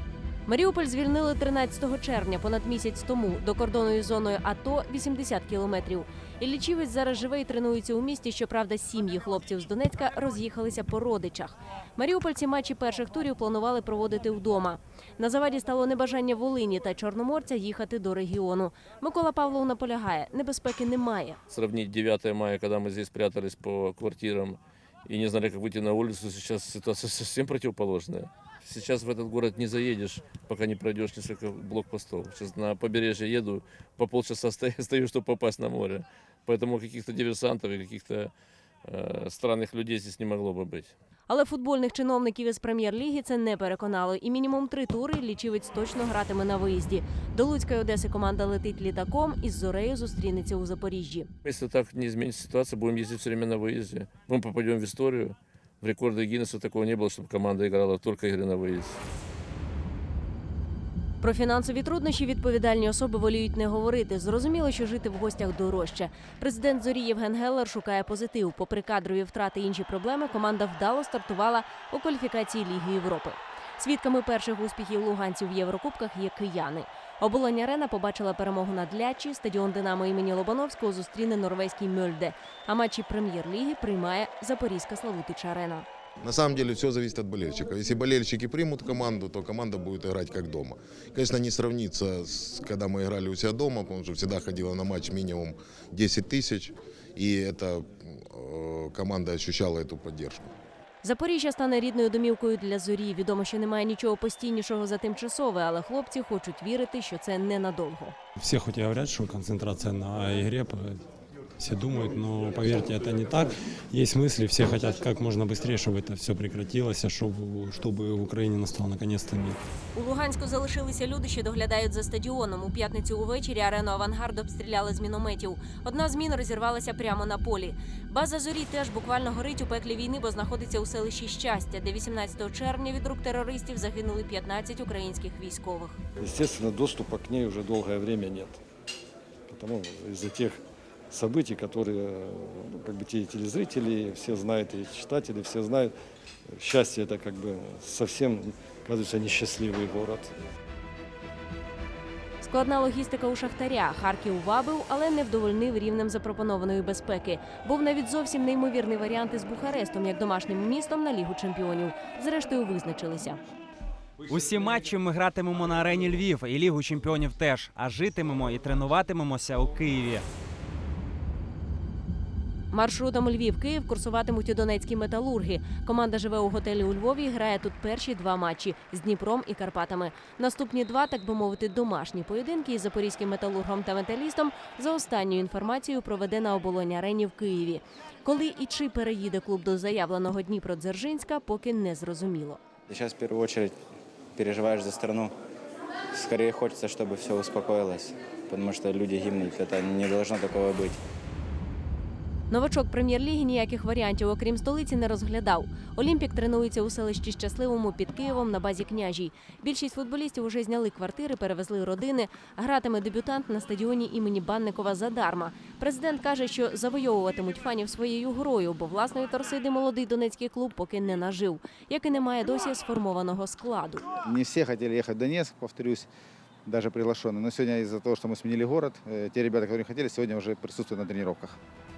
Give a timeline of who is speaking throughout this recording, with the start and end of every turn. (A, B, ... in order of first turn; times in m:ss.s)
0:00.4-0:21.4 A
0:21.5-0:38.3 B
0:38.8-0:40.9 B
0:41.3-0:51.3 A
0:51.4-0:59.0 B
1:01.2-1:25.8 A
1:26.2-1:40.5 C
1:41.0-1:48.1 A
1:48.4-1:51.0 D
1:51.6-1:59.6 D
1:59.9-2:16.0 A
2:16.2-2:18.6 E
2:19.5-2:20.6 E
2:21.1-2:25.9 E
2:26.6-2:30.3 E
2:32.4-2:43.4 A
2:44.3-2:50.2 F
2:52.7-3:12.6 A
3:12.9-3:13.8 G
3:14.3-3:15.3 G
3:16.1-3:21.0 G
3:22.5-3:44.0 A
3:44.2-3:46.1 H
3:46.6-3:51.6 H